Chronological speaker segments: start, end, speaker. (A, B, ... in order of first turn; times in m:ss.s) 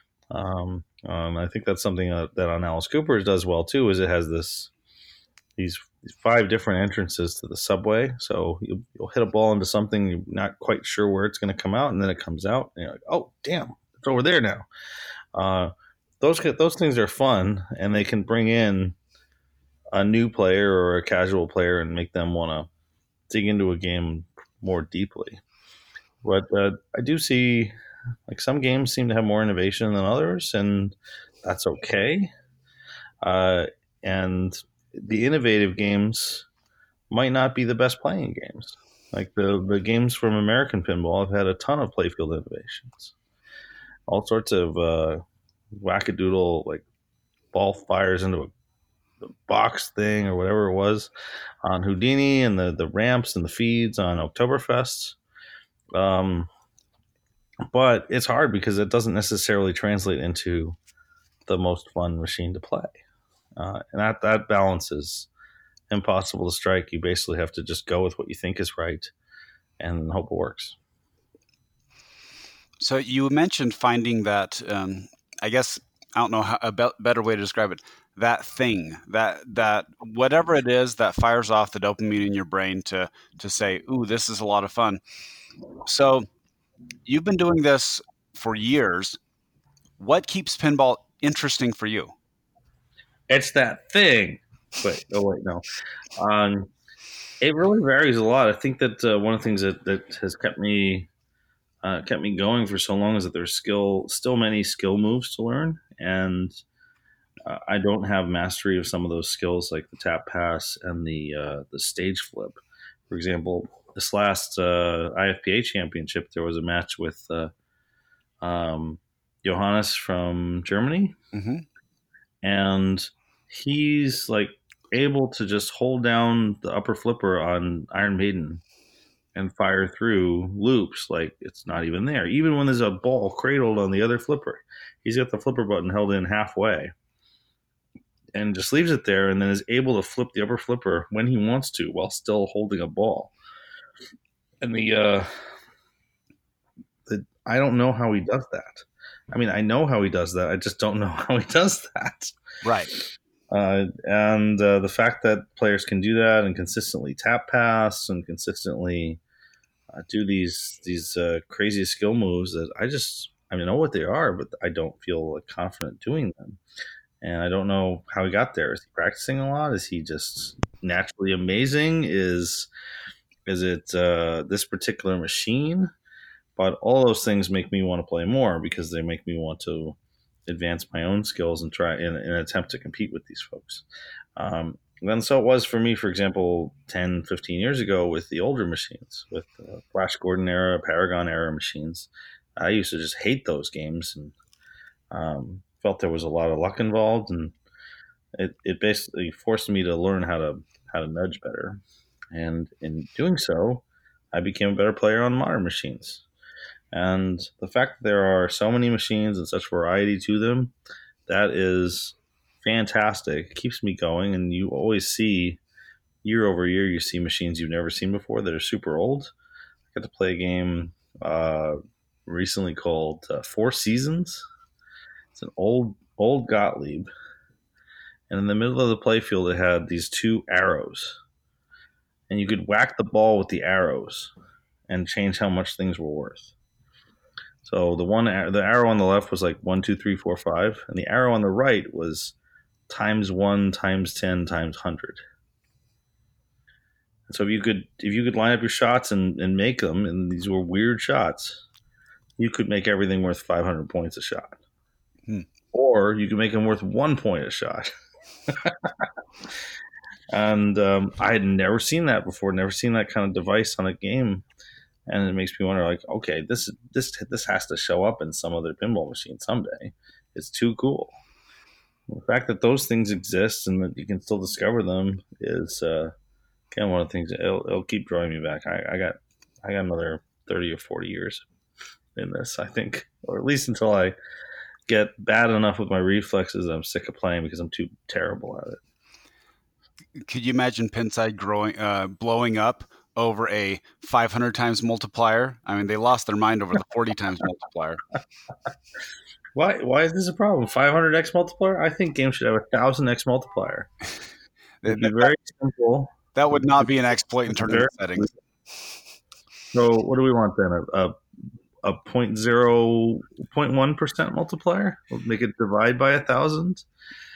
0:00.3-0:04.7 A
0:05.6-0:14.7 A
0:15.4-0:19.0 A
0:19.9-0:22.7 A
0:23.3-0:25.4 A
0:26.2-0:27.7 A
0:28.3-0:32.3 A
0:33.2-0:36.5 A
0:37.1-0:43.1 A
0:44.1-0:46.8 A
0:47.5-0:48.5 A
0:49.4-0:51.1 A
0:51.6-0:55.2 A
0:56.0-0:56.5 A
0:57.7-1:00.8 A
1:01.5-1:03.0 A
1:03.6-1:05.3 A
1:05.9-1:09.1 A
1:09.8-1:10.8 A
1:12.8-1:25.0 B
1:25.8-1:26.3 B
1:27.1-1:29.2 B
1:30.0-1:32.2 B
1:33.3-1:35.6 A
1:36.2-1:36.7 A
1:37.4-1:41.1 A
1:41.8-1:46.6 A
1:47.5-1:57.5 A
1:58.4-2:01.2 A
2:01.3-2:01.6 B
2:02.4-2:08.6 A
2:09.4-2:16.9 A
2:18.4-2:23.3 A
2:24.6-2:25.3 A
2:27.1-2:32.4 A
2:32.6-2:32.9 B
2:32.9-2:39.2 A
2:39.9-2:46.6 A
2:47.2-2:52.7 A
2:53.5-2:55.9 A
2:56.6-3:03.8 A
3:04.4-3:14.4 A
3:15.1-3:17.5 A
3:18.4-3:21.8 A
3:22.3-3:26.2 A
3:26.9-3:30.7 A
3:31.3-3:35.6 A
3:36.2-3:39.3 A
3:39.9-3:44.5 A
3:45.4-3:47.1 A
3:48.3-3:51.2 A
3:52.3-3:54.3 A
3:54.9-3:56.5 A
3:57.6-4:02.4 A
4:02.9-4:05.2 A
4:07.3-4:11.6 A
4:12.4-4:14.6 A
4:15.7-4:17.9 A
4:18.5-4:19.1 A
4:20.3-4:24.4 A
4:25.1-4:31.2 A
4:32.1-4:36.1 A
4:36.7-4:41.4 A
4:42.2-4:44.2 A
4:44.9-4:48.8 A
4:50.3-4:58.0 B
4:59.6-5:03.9 A
5:04.8-5:05.3 B
5:04.8-5:06.6 A
5:06.4-5:08.3 B
5:07.5-5:08.3 A
5:09.7-5:11.2 A
5:11.8-5:16.8 A